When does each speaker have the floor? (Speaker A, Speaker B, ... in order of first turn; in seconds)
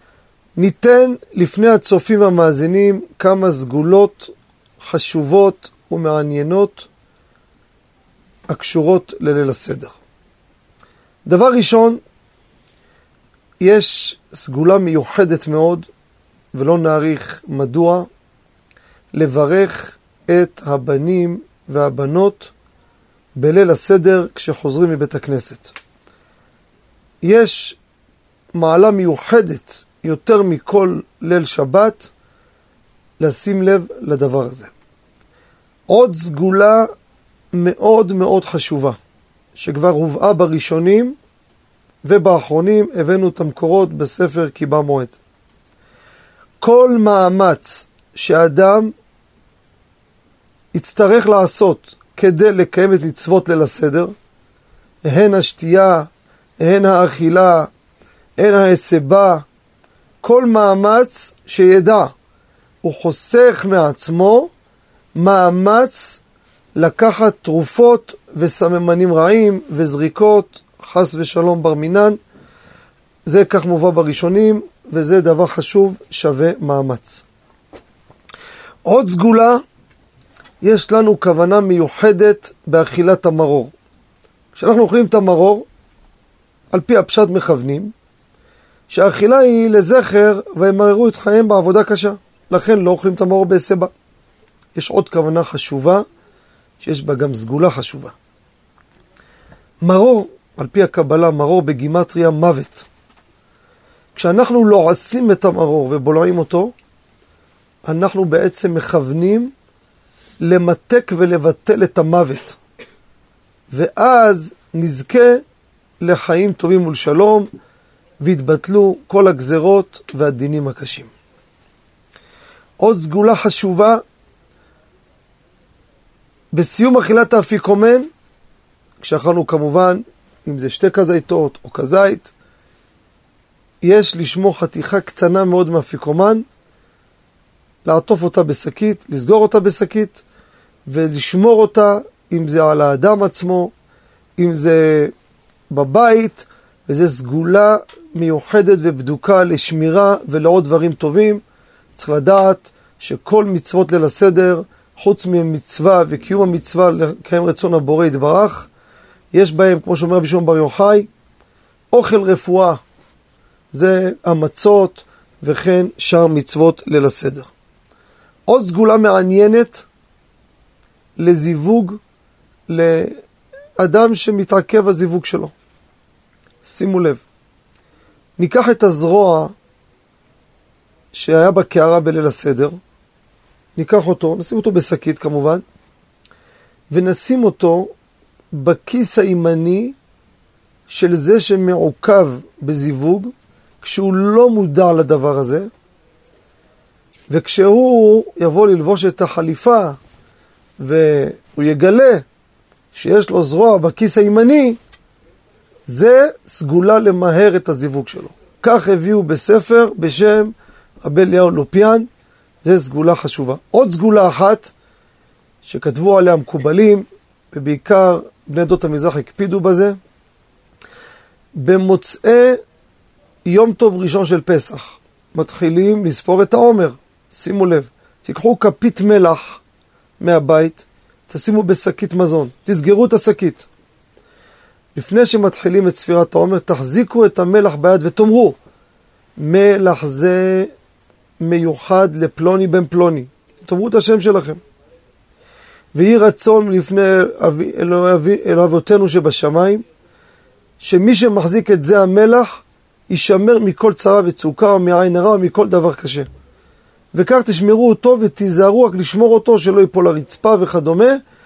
Speaker A: 0.6-6.9, 8.5-9.9, 11.2-12.0, 13.6-15.9, 16.5-18.1, 19.1-22.5, 23.4-25.7, 27.2-27.8, 28.5-32.1, 33.2-34.7, 35.9-36.9, 37.5-39.0, 39.5-41.2, 42.0-45.2, 46.6-48.9, 50.7-54.1, 55.0-57.7, 58.4-59.4, 60.2-62.1, 62.8-64.5, 65.2-66.2, 66.8-72.2, 73.2-77.2, 78.8-79.6, 80.6-83.7, 84.5-85.7, 86.7-87.9, 88.9-93.9, 94.7-96.0, 96.8-98.1, 99.8-102.8, 104.1-106.7, 107.9-109.5, 110.4-112.6, 113.7-115.4, 116.0-117.5, 118.2-121.1, 122.8-124.0, 126.5-128.1, 129.0-132.3, 133.8-136.4, 137.8-140.2, 140.9-143.7, 144.4-145.1, 145.7-151.4, 151.9-158.7, 159.3-161.1, 161.9-162.8, 163.7-167.5, 168.5-169.8, 171.2-172.0, 172.7-173.2, 173.8-175.5, 176.6-177.2, 178.4-179.5, 181.1-182.8, 183.8-185.6, 186.9-187.9, 188.5-189.9, 190.9-195.7, 197.3-200.0, 200.8-202.2, 202.9-204.8, 205.9-212.1, 212.6-214.7, 215.6-220.0, 221.6-222.6, 223.4-229.6, 230.2-233.7, 234.9-238.6, 239.4-240.7, 241.4-244.6, 245.9-249.8, 250.8-256.3, 257.1-261.2